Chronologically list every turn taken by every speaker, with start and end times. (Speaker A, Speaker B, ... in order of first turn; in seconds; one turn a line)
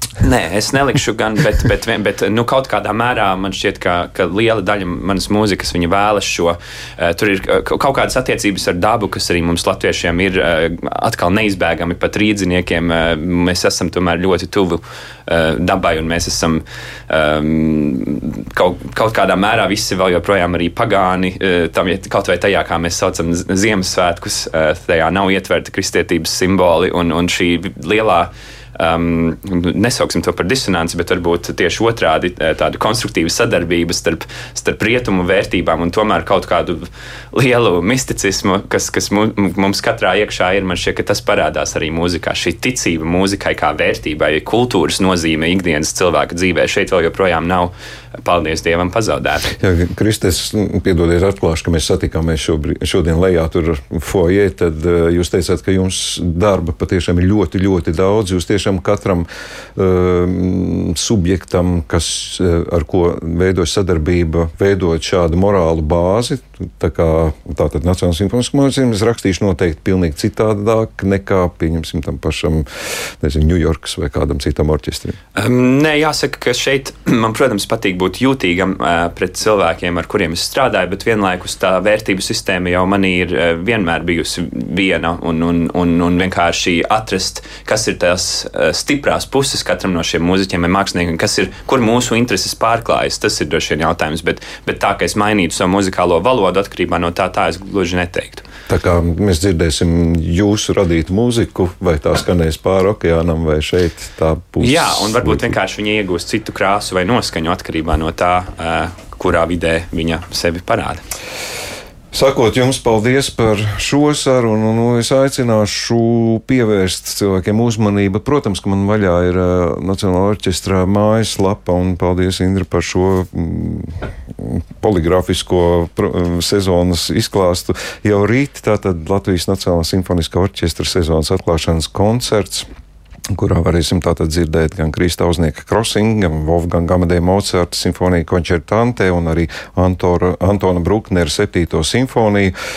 Speaker A: 0.2-47.7
Speaker A: 48.2-49.5
Speaker B: 49.5-72.7
Speaker B: 73.2-75.2
Speaker A: 75.3-98.4
Speaker B: 98.7-105.5
Speaker A: 104.6-111.0
Speaker B: 112.1-132.7
Speaker B: 133.3-142.5